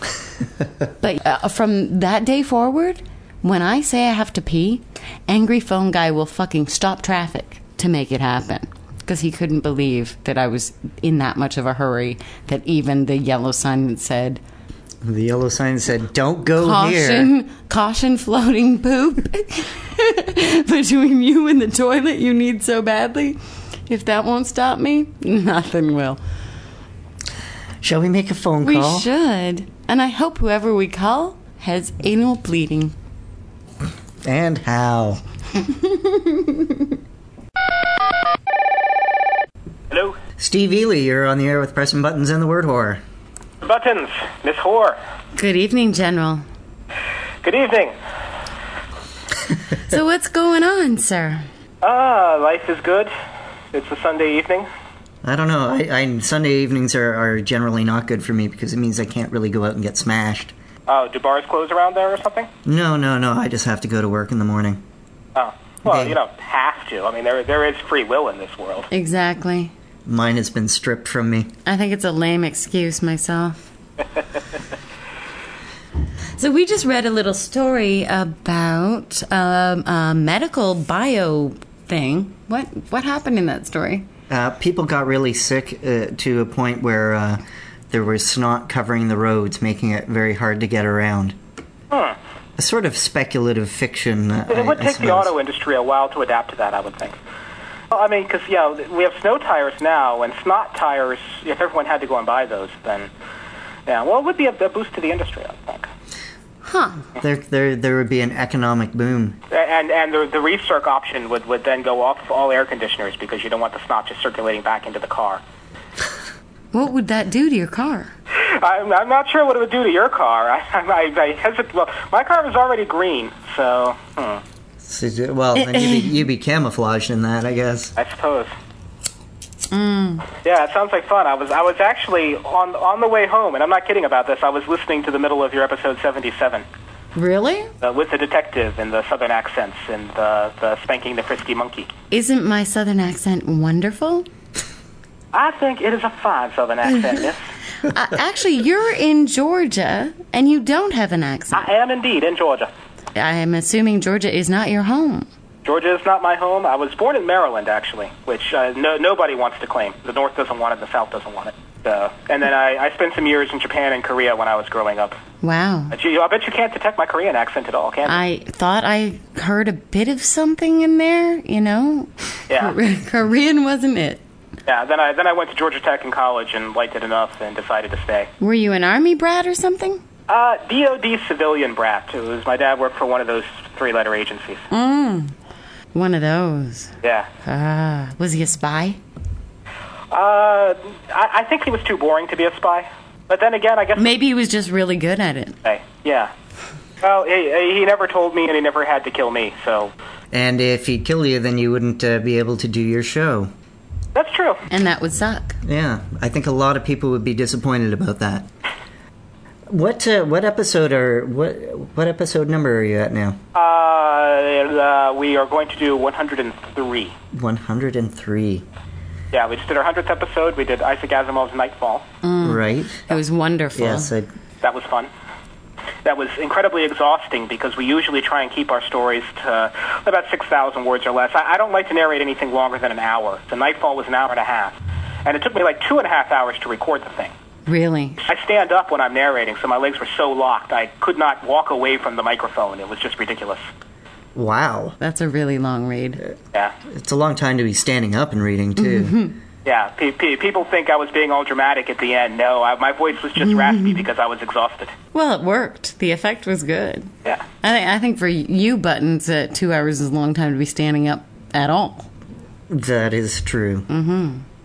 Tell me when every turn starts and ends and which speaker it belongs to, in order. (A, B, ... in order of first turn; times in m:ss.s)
0:01.0-0:14.4 A
0:15.0-0:17.3 B
0:16.6-0:26.2 A
0:27.8-0:29.1 B
0:28.6-0:32.9 A
0:34.2-0:35.2 B
0:35.9-0:36.7 A
0:39.9-0:40.2 C
0:40.4-0:43.0 B
0:43.6-0:45.0 C
0:45.3-0:46.4 A
0:47.4-0:48.0 C
0:49.8-0:51.5 A
0:51.8-0:53.1 C
0:53.7-0:54.7 C
0:55.2-1:00.5 B
1:00.9-1:02.5 C
1:02.6-1:04.8 B
1:05.3-1:08.9 C
1:05.8-1:06.2 B
1:08.9-1:09.7 A
1:10.0-1:11.5 B
1:11.6-1:13.6 A
1:16.4-1:24.1 A
1:24.3-1:31.4 B
1:31.9-1:32.2 C
1:32.6-1:35.3 B
1:34.5-1:37.2 C
1:37.9-1:43.1 C
1:43.8-1:45.9 C
1:46.6-1:47.0 A
1:47.2-1:49.4 B
1:49.5-1:55.4 C
1:56.7-1:58.1 A
1:58.3-2:04.4 C
2:04.8-2:07.9 B
2:05.5-2:06.2 A
2:08.0-2:08.5 C
2:09.7-2:10.3 A
2:10.4-2:16.6 C
2:17.1-2:17.7 A
2:17.8-2:21.9 C
2:22.1-2:24.3 A
2:25.3-2:27.4 C
2:27.8-2:31.7 A
2:31.5-2:32.7 C
2:33.1-2:35.3 A
2:35.6-2:45.2 C
2:45.4-2:45.9 A
2:45.9-2:48.2 C
2:48.0-2:54.2 A
2:54.6-2:58.3 C
2:58.4-3:00.0 A
3:00.3-3:04.7 C
3:04.7-3:05.3 A
3:05.9-3:09.0 A
3:07.0-3:07.3 C
3:10.1-3:14.2 C
3:14.0-3:15.6 A
3:15.6-3:16.3 C
3:17.0-3:19.9 C
3:20.3-3:23.5 B
3:24.1-3:24.6 C
3:24.7-3:25.6 A
3:25.6-3:28.5 B
3:29.7-3:33.4 B
3:33.5-3:37.1 C
3:37.3-3:38.6 B
3:39.3-3:42.0 C
3:42.2-3:44.1 A
3:42.4-3:43.0 B
3:43.8-3:44.3 B
3:44.6-3:45.1 C
3:46.0-3:57.3 C
3:57.6-3:58.2 A
3:58.2-4:03.6 C
4:04.3-4:05.0 B
4:05.0-4:06.2 A
4:06.8-4:09.2 B
4:08.8-4:09.4 A
4:09.6-4:14.9 C
4:15.1-4:22.1 A
4:22.7-4:23.9 B
4:23.9-4:24.4 A